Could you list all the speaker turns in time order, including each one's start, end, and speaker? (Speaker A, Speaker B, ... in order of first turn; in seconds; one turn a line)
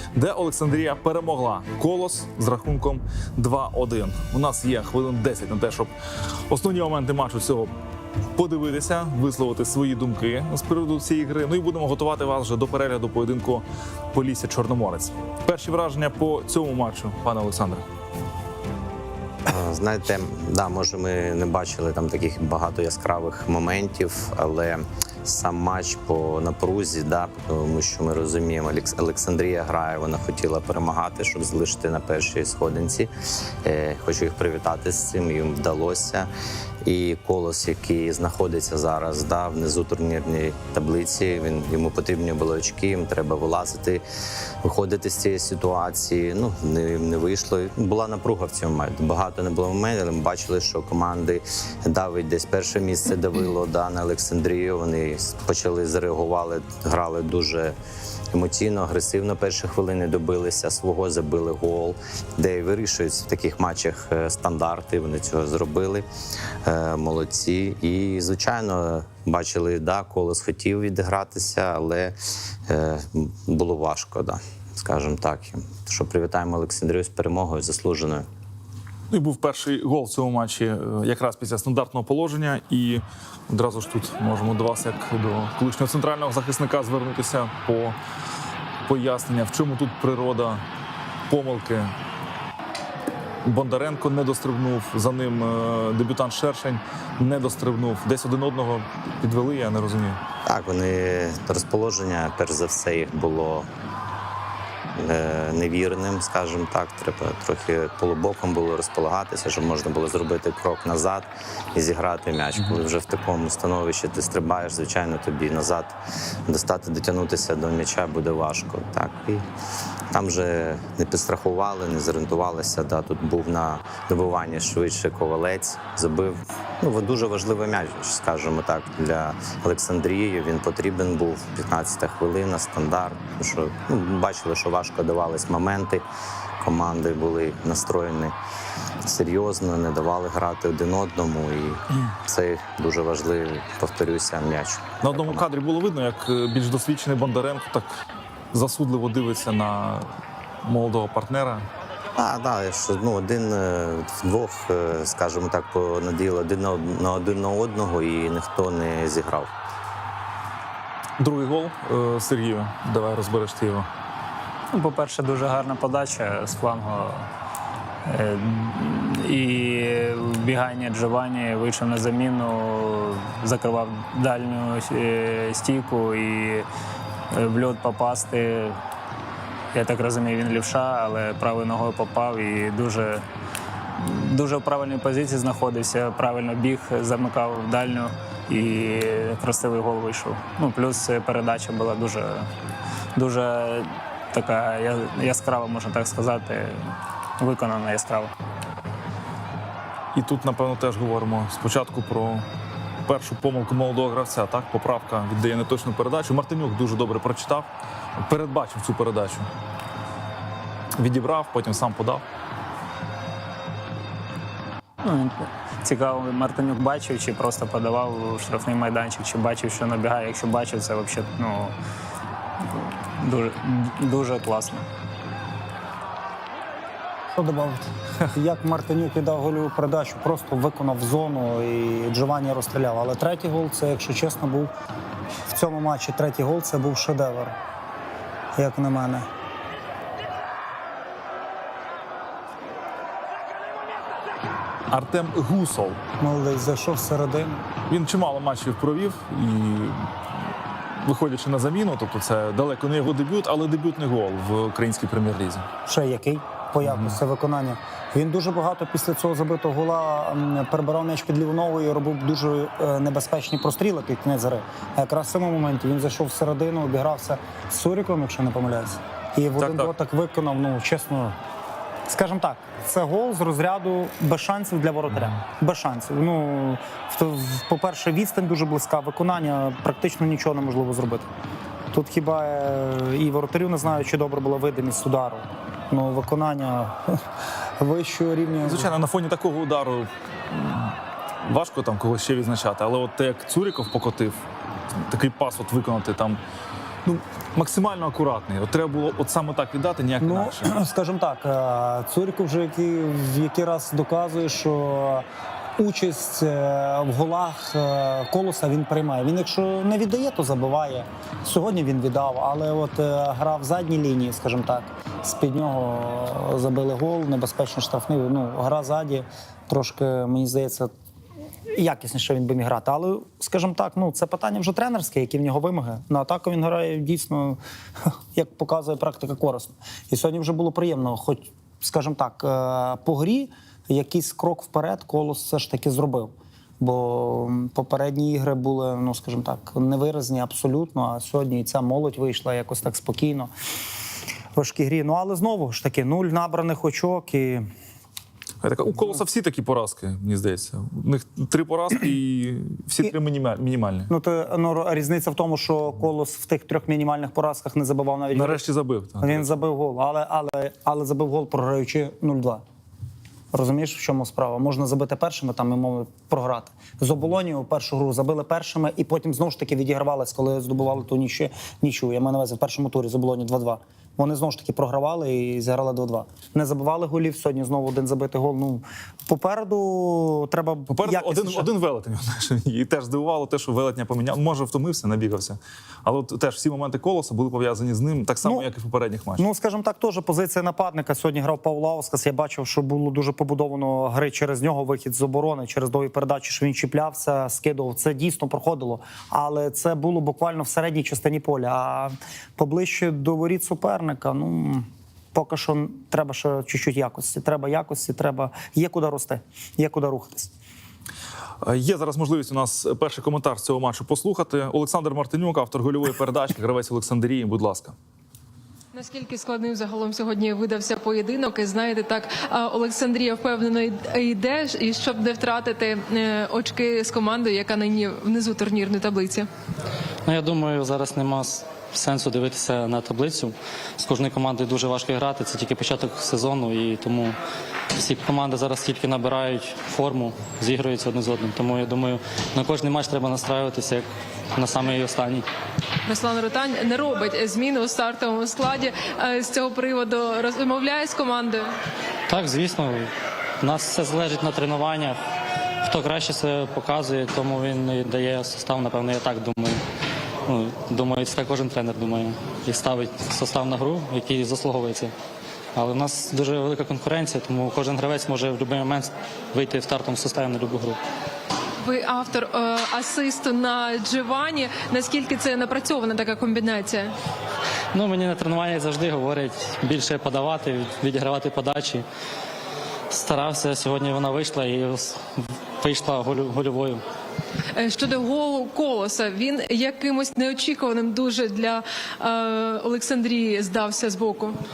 Speaker A: 0.1-5.9
Speaker A: 6.5-7.7
Speaker A: 8.3-17.8
Speaker B: 19.4-33.1
Speaker B: 33.6-36.3
Speaker B: 36.8-44.0
Speaker B: 44.6-57.8
Speaker B: 58.3-66.0
Speaker B: 66.6-78.3
Speaker A: 79.1-88.0
Speaker A: 88.8-90.6
Speaker A: 91.3-91.9
Speaker A: 93.4-100.2
Speaker B: 100.4-103.7
Speaker B: 104.9-119.5
Speaker B: 120.1-136.0
Speaker B: 136.6-138.3
Speaker B: 139.0-145.4
Speaker A: 145.0-150.1
Speaker A: 150.6-151.7
Speaker B: 152.2-159.5
Speaker A: 161.2-163.9
Speaker C: 164.7-167.3
Speaker C: 168.0-176.7
Speaker C: 177.3-178.8
Speaker C: 179.7-183.2
Speaker C: 184.0-192.5
Speaker C: 193.2-198.3
Speaker A: 200.1-202.5
Speaker A: 203.1-209.5
Speaker A: 210.9-212.2
Speaker C: 215.0-221.7
Speaker C: 222.7-224.9
Speaker D: 227.3-234.7
Speaker D: 235.5-237.5
Speaker D: 238.6-239.3
Speaker A: 244.9-246.0
Speaker D: 246.2-247.6
Speaker A: 247.9-250.1
Speaker A: 251.0-255.7
Speaker D: 255.8-271.4
Speaker A: 256.9-257.1
Speaker A: 269.6-269.9
Speaker D: 272.1-281.3
Speaker D: 281.9-287.2
Speaker D: 287.8-288.9
Speaker A: 288.6-296.4
Speaker A: 297.0-300.8
Speaker D: 300.2-320.9
Speaker D: 321.7-343.5
Speaker D: 344.5-347.7
Speaker A: 348.6-354.1
Speaker D: 354.1-358.6
Speaker A: 358.3-359.5
Speaker D: 359.2-362.6
Speaker D: 363.5-381.7
Speaker A: 380.9-389.4
Speaker D: 389.4-410.5
Speaker A: 411.6-417.9
Speaker E: 418.9-429.5
Speaker F: 430.2-437.4
Speaker F: 437.9-445.4
Speaker E: 446.1-451.7
Speaker F: 452.3-455.2
Speaker F: 455.8-459.8
Speaker F: 460.4-465.1
Speaker F: 465.7-471.0
Speaker E: 471.8-477.1
Speaker F: 477.9-482.0
Speaker F: 483.1-487.0
Speaker E: 487.7-494.6